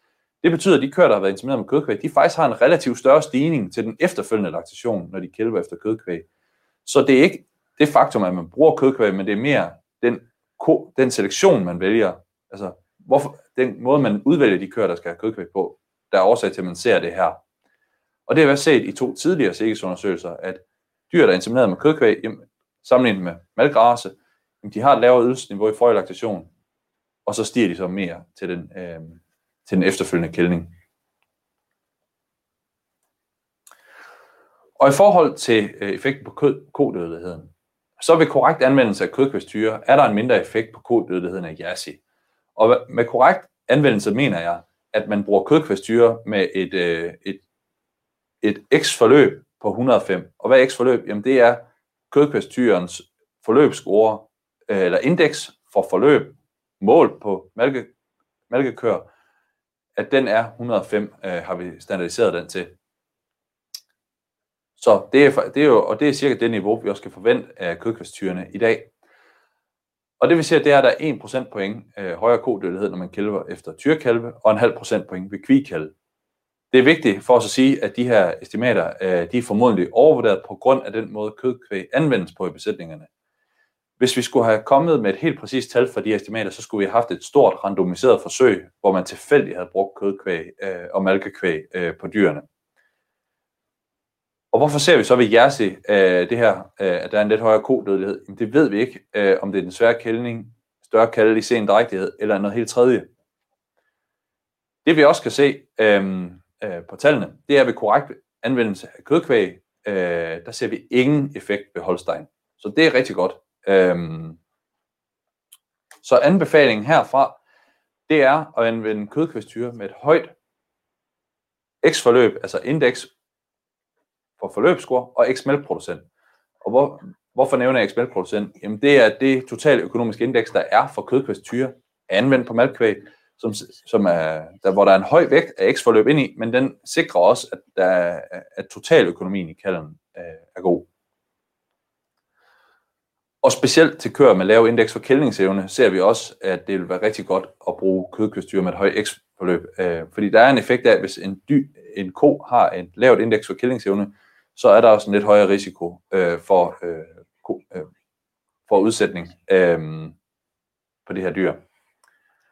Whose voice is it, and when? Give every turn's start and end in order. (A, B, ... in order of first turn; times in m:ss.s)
0:00.4-0:06.2 A
0:06.8-0:17.4 A
0:18.3-0:26.5 A
0:27.2-0:30.7 A
0:34.8-0:42.0 A
0:42.6-0:47.4 A
0:48.4-0:57.9 A
0:58.5-0:59.1 A
1:00.0-1:02.7 A
1:04.8-1:08.9 A
1:10.2-1:15.9 A
1:16.7-1:23.1 A
1:24.0-1:32.4 A
1:34.5-1:43.1 A
1:44.8-1:54.4 A
1:56.0-1:57.4 A
1:58.1-2:00.3 A
2:01.8-2:03.1 A
2:04.4-2:06.0 A
2:06.6-2:20.9 A
2:23.4-2:37.9 A
2:38.7-2:40.1 A
2:41.0-2:41.6 A